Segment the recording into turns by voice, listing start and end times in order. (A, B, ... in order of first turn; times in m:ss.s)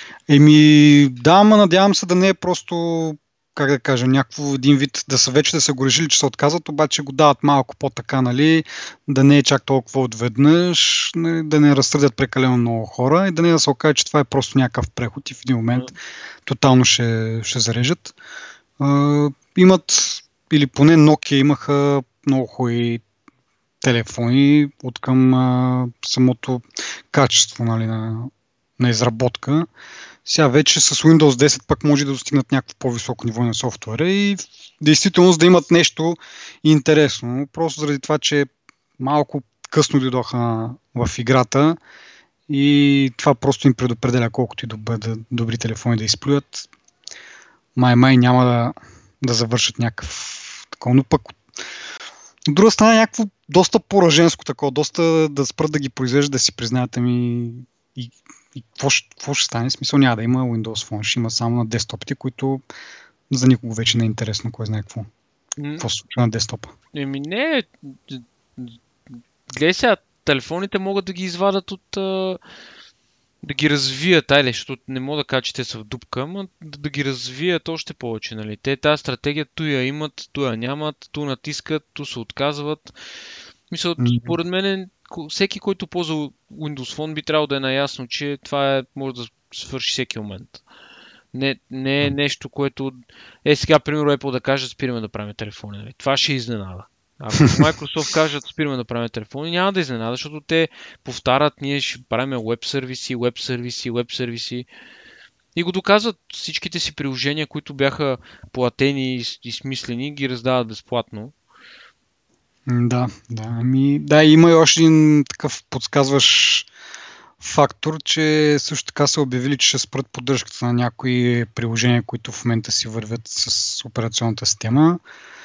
0:00.3-0:15.9 A
0:16.4-0:18.1 A
0:18.8-0:23.0 A
0:23.8-0:29.7 A
0:30.2-0:38.5 A
0:39.0-0:41.8 A
0:42.5-0:46.7 A
0:47.8-0:51.4 A
0:52.5-1:02.6 A
1:03.3-1:05.1 A
1:05.6-1:05.8 B
1:05.8-1:06.7 A
1:06.9-1:12.4 B
1:13.4-1:22.9 B
1:23.7-1:30.6 B
1:24.0-1:24.3 A
1:31.3-1:44.7 B
1:45.5-1:51.3 B
1:52.7-1:56.7 A
1:57.4-2:05.0 A